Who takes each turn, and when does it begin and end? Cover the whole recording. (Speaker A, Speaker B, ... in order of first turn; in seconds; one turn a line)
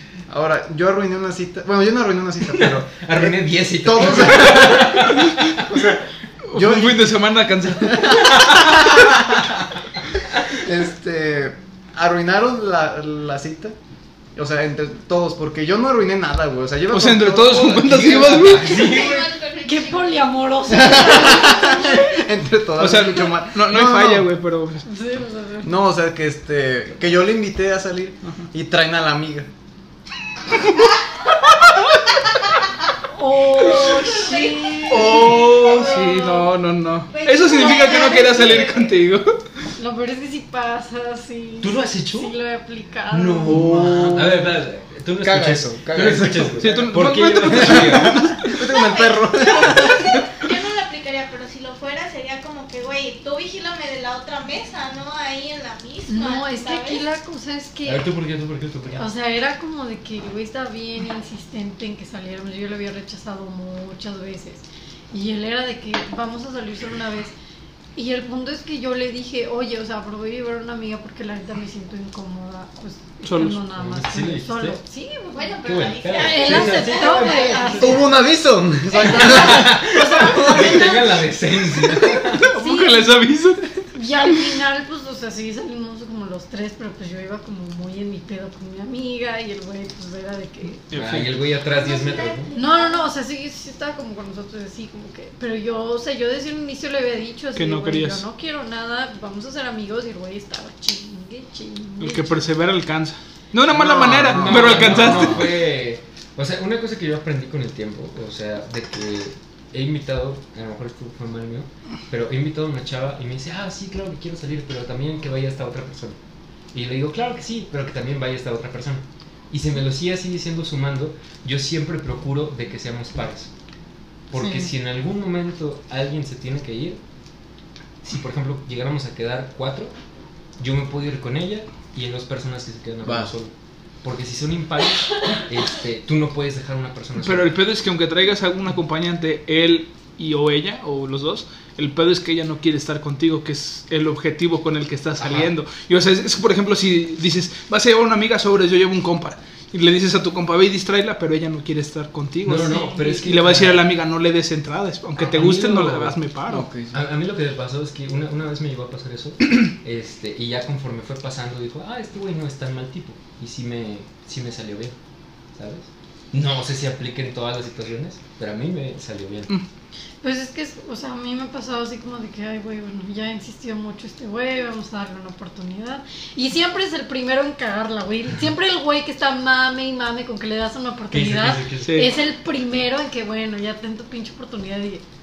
Speaker A: 0.3-9.4
Speaker B: 2.5-5.8
Speaker C: 4.2-4.7
Speaker C: 6.5-8.9
Speaker B: 8.2-9.6
Speaker A: 10.5-13.8
Speaker A: 14.4-18.7
Speaker C: 16.9-18.9
Speaker B: 17.8-19.3
Speaker D: 18.6-20.3
Speaker E: 19.6-22.2
Speaker A: 20.7-24.3
Speaker C: 22.8-24.9
Speaker E: 24.9-25.8
Speaker A: 25.6-29.5
Speaker E: 33.1-36.0
Speaker D: 33.6-36.4
Speaker C: 34.9-39.4
Speaker D: 37.1-38.6
Speaker E: 37.5-39.0
Speaker E: 39.8-43.7
Speaker B: 41.6-42.4
Speaker B: 43.1-48.4
Speaker A: 43.4-44.6
Speaker A: 45.2-50.2
Speaker C: 46.6-48.5
Speaker D: 48.6-57.0
Speaker E: 56.1-58.1
Speaker B: 57.9-59.1
Speaker E: 59.0-67.3
Speaker E: 68.0-75.6
Speaker C: 73.2-73.6
Speaker B: 73.7-74.8
Speaker D: 75.3-78.0
Speaker B: 75.6-78.0
Speaker E: 76.1-78.2
Speaker A: 77.8-80.8
Speaker E: 78.9-81.2
Speaker B: 79.0-82.5
Speaker C: 82.4-83.8
Speaker E: 82.5-83.3
Speaker E: 83.9-90.8
Speaker C: 90.9-91.5
Speaker B: 90.9-92.5
Speaker D: 91.7-93.1
Speaker E: 92.5-102.5
Speaker C: 97.6-98.2
Speaker C: 102.0-105.5
Speaker A: 103.7-105.4
Speaker B: 103.8-116.2
Speaker B: 116.7-123.5
Speaker B: 124.3-127.0
Speaker B: 128.0-129.9
Speaker B: 130.6-133.5
Speaker A: 133.0-133.3
Speaker B: 134.0-137.6
Speaker C: 137.2-156.7
Speaker B: 145.2-145.5
Speaker B: 152.4-153.9
Speaker B: 155.2-156.2
Speaker A: 156.5-157.0
Speaker B: 156.9-164.9
Speaker B: 165.6-169.5
Speaker E: 170.2-185.0
Speaker B: 181.1-182.1
Speaker C: 181.8-182.1